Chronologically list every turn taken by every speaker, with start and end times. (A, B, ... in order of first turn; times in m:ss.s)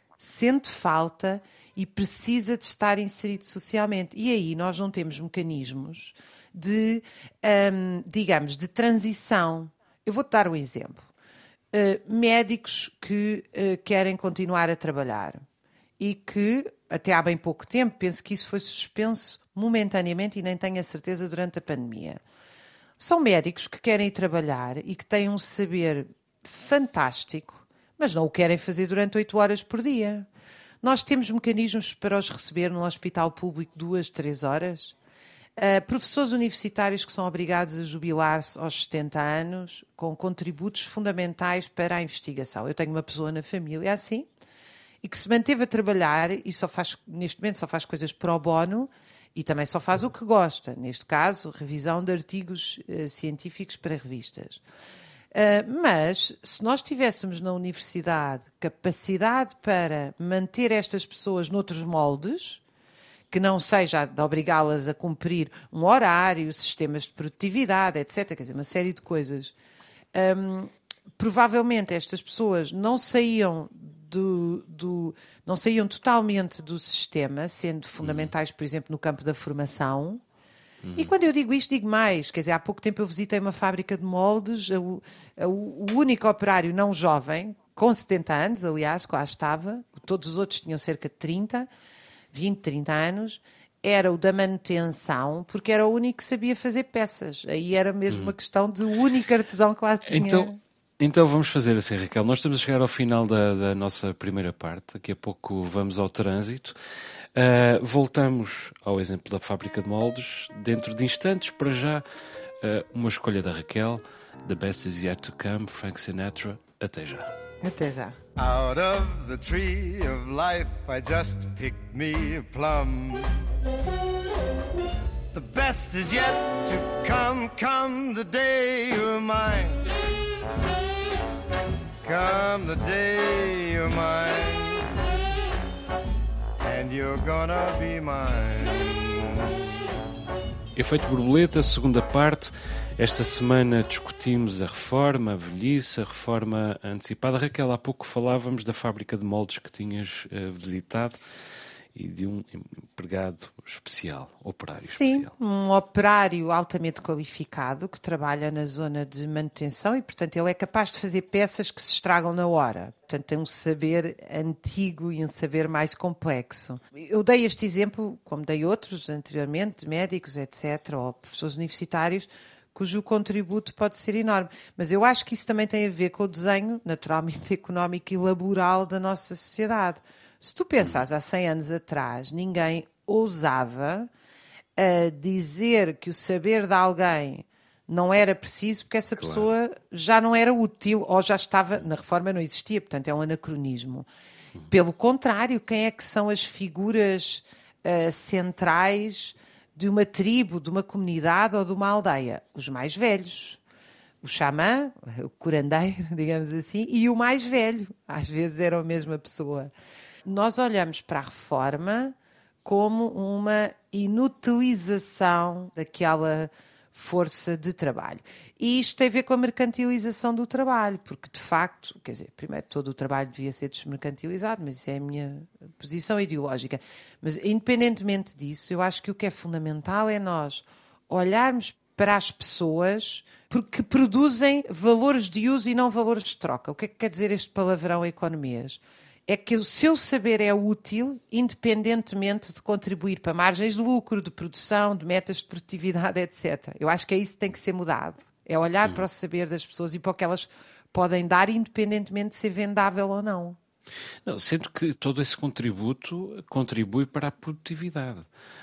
0:00.2-0:11.1 A
0:11.7-0:15.4 A
0:16.0-0:22.2 A
0:23.0-0:30.3 A
0:30.8-0:35.0 A
0:35.6-0:44.3 A
0:45.0-0:54.6 A
0:55.3-1:02.6 A
1:03.3-1:09.6 A
1:10.1-1:20.2 A
1:18.0-1:18.3 B
1:20.8-1:21.1 B
1:21.0-1:31.7 A
1:32.3-1:40.6 A
1:38.1-1:38.3 B
1:40.1-1:46.8 B
1:47.4-1:52.0 B
1:52.6-1:57.3 B
1:57.6-1:58.2 A
1:58.4-2:03.5 C
2:05.3-2:09.9 C
2:12.0-2:15.0 C
2:16.6-2:19.7 C
2:20.8-2:31.2 B
2:31.9-2:35.3 B
2:34.8-3:04.1 A
3:04.8-3:14.1 A
3:09.2-3:09.5 B
3:14.7-3:23.6 A
3:24.2-3:29.7 A
3:30.2-4:13.6 A
4:14.2-4:18.3 B